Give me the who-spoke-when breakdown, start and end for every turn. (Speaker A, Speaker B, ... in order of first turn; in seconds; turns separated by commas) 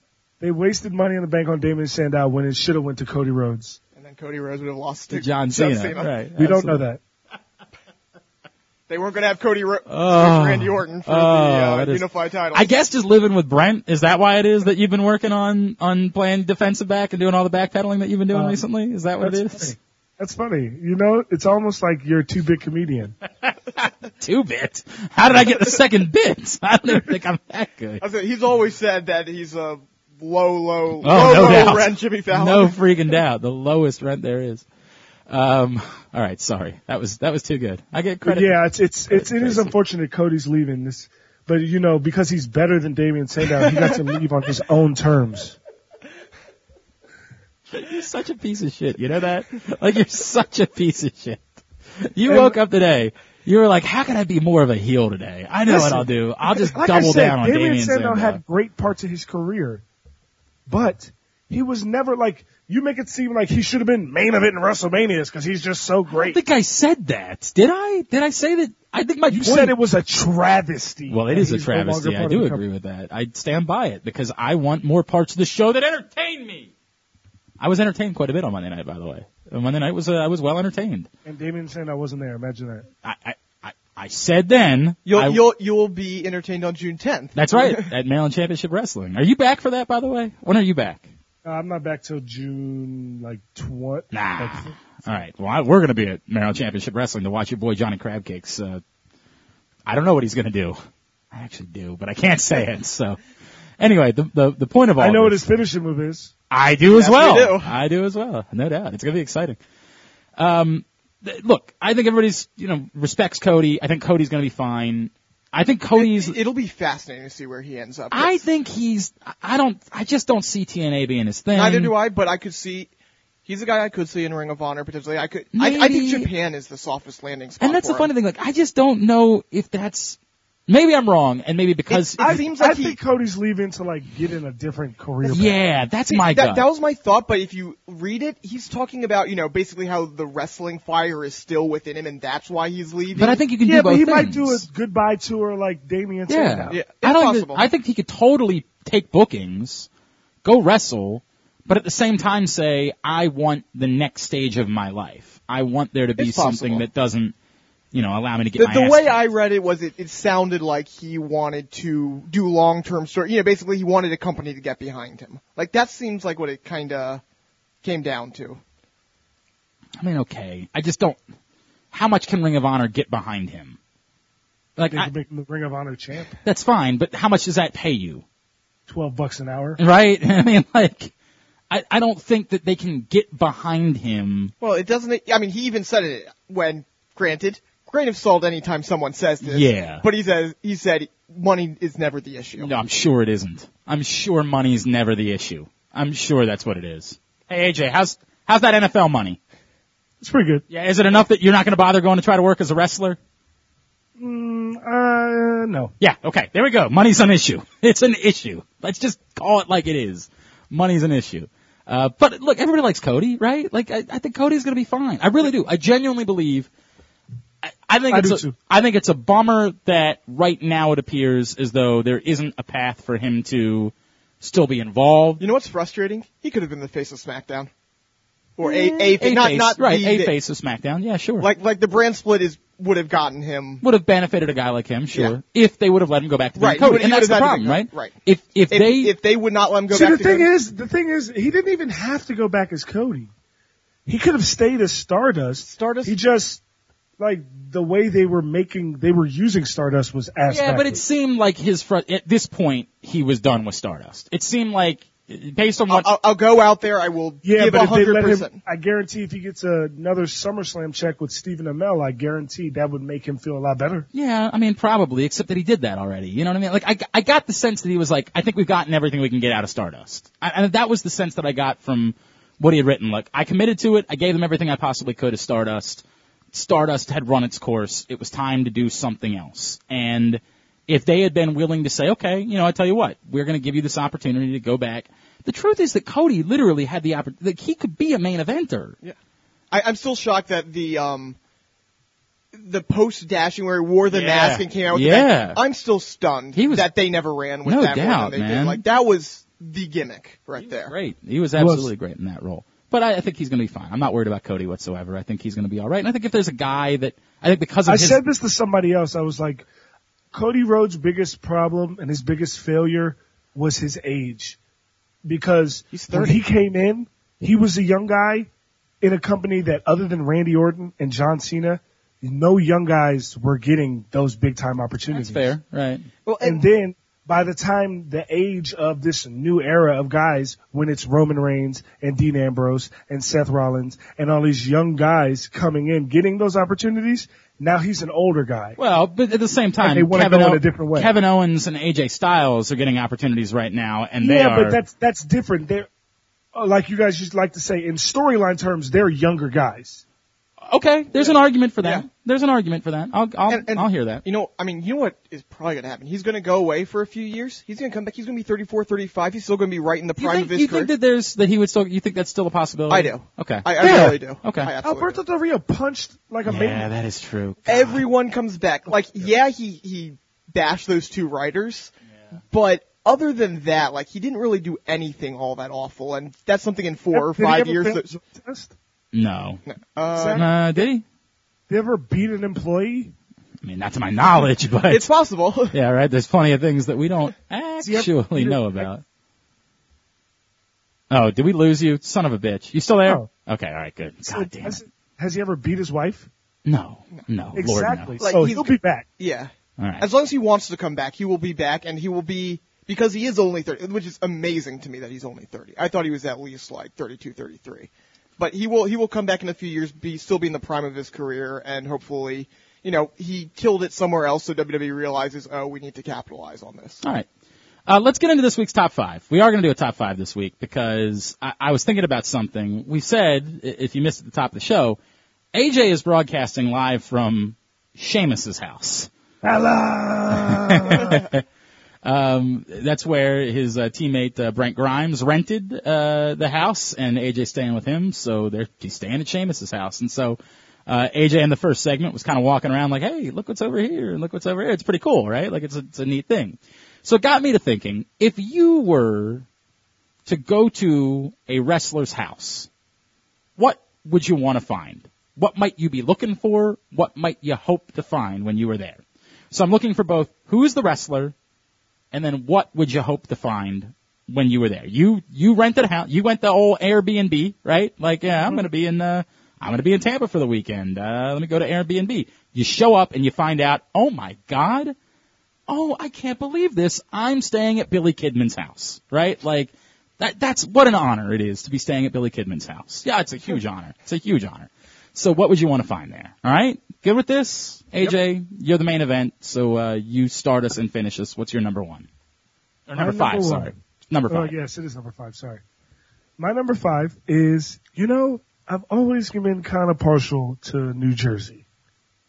Speaker A: 0.4-3.8, Speaker B: 4.0-6.1, Speaker C: 5.1-6.8, Speaker A: 6.4-7.0, Speaker B: 8.9-12.7, Speaker C: 9.9-19.8, Speaker A: 18.3-18.6, Speaker A: 19.2-23.1, Speaker C: 23.4-28.0, Speaker B: 28.0-32.8, Speaker C: 31.0-34.7, Speaker C: 35.3-39.7, Speaker A: 38.2-45.6, Speaker C: 47.7-51.5, Speaker C: 52.0-58.4, Speaker A: 52.3-52.5, Speaker A: 55.7-59.8, Speaker A: 60.7-66.4, Speaker C: 66.1-69.8, Speaker A: 69.3-72.6, Speaker C: 71.1-76.7, Speaker C: 77.6-81.1, Speaker A: 81.2-82.9, Speaker C: 83.0-85.4, Speaker B: 85.1-87.9, Speaker C: 87.4-91.1, Speaker A: 91.5-95.2, Speaker C: 94.1-98.8, Speaker C: 99.9-100.8, Speaker C: 101.3-103.2, Speaker C: 103.8-105.5, Speaker A: 105.0-106.3, Speaker C: 106.5-109.6, Speaker B: 106.9-107.7, Speaker C: 110.4-116.4, Speaker B: 116.0-118.4, Speaker C: 118.1-121.9, Speaker B: 121.5-122.9, Speaker B: 123.5-128.1, Speaker C: 125.5-126.3, Speaker C: 127.6-132.4, Speaker B: 131.9-133.0, Speaker A: 132.2-135.6, Speaker C: 135.3-136.6, Speaker B: 136.1-143.4, Speaker C: 143.2-144.7, Speaker A: 143.7-146.8, Speaker C: 146.3-149.9, Speaker B: 146.7-147.7, Speaker C: 150.4-157.3, Speaker B: 156.2-156.8, Speaker C: 157.9-159.2, Speaker B: 158.6-167.2, Speaker B: 167.8-168.6, Speaker C: 170.0-171.2, Speaker C: 171.9-173.8, Speaker C: 174.8-175.1, Speaker A: 174.9-176.4, Speaker C: 176.4-178.2, Speaker A: 178.9-179.8, Speaker C: 179.8-181.1, Speaker C: 181.7-184.5, Speaker B: 184.6-192.7, Speaker C: 189.4-190.1, Speaker C: 192.6-199.4, Speaker A: 200.2-200.6, Speaker C: 200.7-203.2, Speaker A: 204.2-205.9, Speaker C: 206.0-216.7, Speaker C: 217.7-225.4, Speaker A: 218.1-218.6, Speaker B: 225.4-227.7, Speaker B: 228.6-230.3, Speaker C: 228.6-231.5, Speaker B: 231.4-233.8, Speaker C: 233.8-239.1, Speaker B: 236.6-238.2, Speaker B: 238.7-240.5, Speaker A: 239.9-243.3, Speaker A: 244.1-246.6, Speaker B: 245.6-246.2, Speaker A: 247.2-251.0, Speaker C: 250.5-256.1, Speaker B: 255.9-258.6, Speaker A: 257.4-264.1, Speaker C: 264.1-289.0, Speaker B: 289.7-291.4, Speaker B: 292.5-300.9, Speaker C: 294.1-295.6, Speaker C: 296.6-296.9, Speaker C: 297.7-298.8, Speaker C: 300.6-308.2, Speaker A: 301.6-301.9, Speaker A: 307.9-309.7, Speaker A: 310.3-314.6, Speaker A: 315.3-318.5, Speaker B: 315.9-316.4, Speaker A: 319.0-325.5, Speaker C: 325.1-326.1, Speaker B: 326.2-326.6, Speaker A: 326.4-338.8, Speaker C: 338.8-344.8, Speaker A: 339.8-341.1, Speaker A: 344.2-345.9, Speaker A: 346.5-350.0, Speaker C: 350.7-354.2, Speaker B: 351.2-352.1, Speaker B: 353.5-360.9, Speaker C: 360.2-364.7, Speaker B: 362.9-365.2, Speaker A: 363.8-364.1, Speaker A: 364.8-366.9, Speaker C: 366.4-368.0, Speaker B: 367.7-371.9, Speaker B: 372.5-378.1, Speaker A: 377.1-378.8, Speaker C: 379.1-379.6, Speaker B: 379.7-380.5, Speaker A: 380.1-380.5, Speaker C: 380.3-381.0, Speaker A: 381.7-383.1, Speaker C: 383.6-385.0, Speaker B: 384.9-385.8, Speaker C: 385.7-389.0, Speaker A: 387.8-388.9, Speaker C: 391.1-394.8, Speaker A: 394.3-396.3, Speaker C: 396.7-398.2, Speaker A: 397.6-399.1, Speaker B: 398.2-417.0, Speaker C: 399.8-400.1, Speaker C: 417.0-417.3, Speaker C: 417.9-425.0, Speaker C: 425.5-429.1, Speaker A: 429.4-431.2, Speaker C: 430.3-431.4, Speaker C: 432.0-449.5, Speaker C: 450.3-452.7, Speaker C: 453.6-461.3, Speaker C: 462.1-474.9, Speaker C: 475.7-492.1, Speaker C: 492.9-494.6, Speaker A: 492.9-493.7, Speaker A: 494.3-495.6, Speaker A: 496.4-501.6